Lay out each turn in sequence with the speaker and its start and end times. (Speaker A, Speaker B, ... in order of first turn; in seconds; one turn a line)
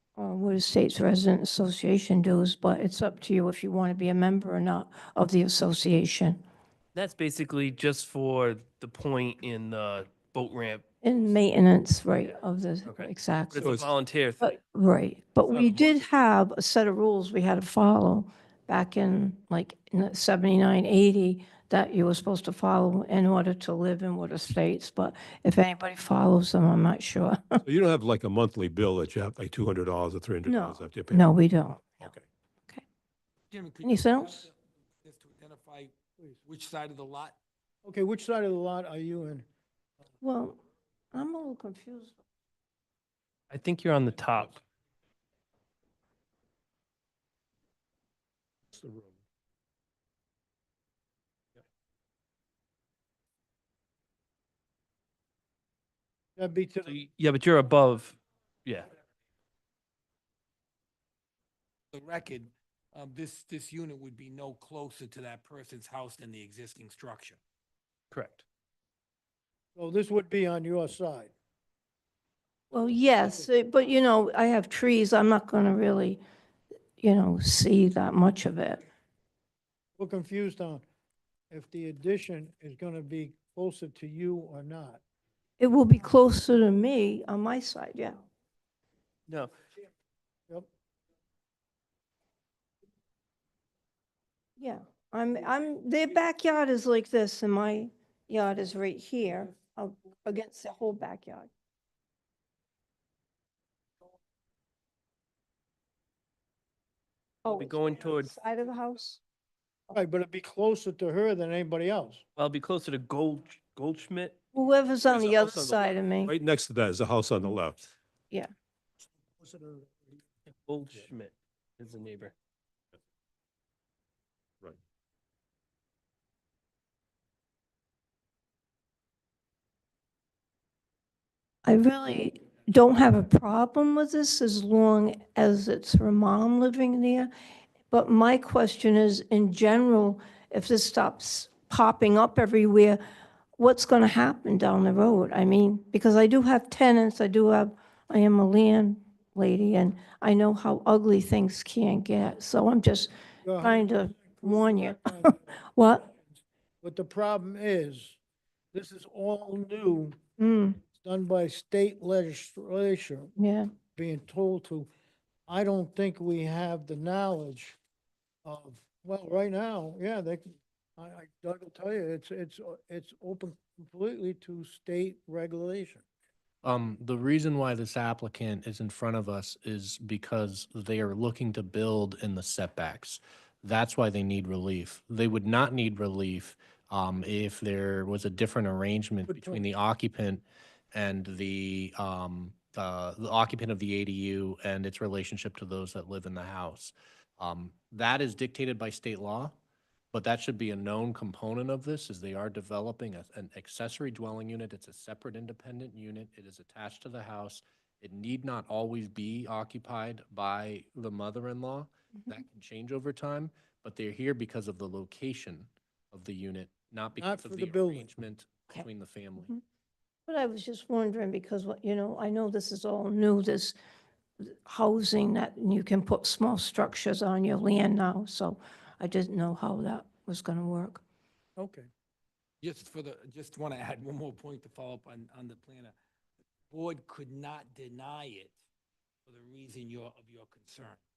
Speaker A: 0.2-6.4
Speaker B: 6.9-10.8
Speaker A: 11.0-13.7
Speaker B: 12.8-14.6
Speaker C: 13.6-13.9
Speaker A: 14.4-27.6
Speaker B: 15.5-16.0
Speaker C: 27.6-31.3
Speaker A: 30.5-31.8
Speaker D: 33.5-35.9
Speaker A: 33.8-34.5
Speaker D: 36.4-37.4
Speaker E: 37.8-39.4
Speaker A: 40.2-40.6
Speaker A: 41.1-42.2
Speaker B: 43.5-44.6
Speaker C: 48.8-49.1
Speaker E: 56.4-56.9
Speaker B: 56.8-58.9
Speaker D: 61.9-67.4
Speaker B: 68.1-68.4
Speaker E: 69.8-71.3
Speaker A: 72.7-76.2
Speaker A: 77.0-78.8
Speaker E: 80.0-80.8
Speaker E: 81.5-85.0
Speaker A: 85.6-88.2
Speaker A: 94.6-101.5
Speaker A: 107.4-109.2
Speaker B: 107.4-108.3
Speaker E: 109.9-112.2
Speaker B: 112.4-114.4
Speaker A: 114.5-116.3
Speaker B: 115.3-115.8
Speaker C: 116.2-117.9
Speaker E: 119.3-120.1
Speaker B: 120.5-122.3
Speaker A: 131.6-137.3
Speaker A: 137.9-143.0
Speaker A: 143.6-156.1
Speaker E: 153.4-158.2
Speaker E: 158.7-160.2
Speaker A: 160.4-160.8
Speaker E: 160.9-163.3
Speaker A: 163.4-163.7
Speaker E: 163.9-164.9
Speaker E: 165.5-167.8
Speaker E: 168.4-176.0
Speaker F: 176.6-199.5
Speaker E: 189.3-189.6
Speaker F: 200.1-219.5
Speaker E: 217.2-218.1
Speaker A: 220.3-223.8
Speaker A: 224.4-231.0
Speaker E: 231.6-231.9
Speaker D: 232.6-235.9
Speaker D: 236.7-238.6
Speaker D: 239.2-241.0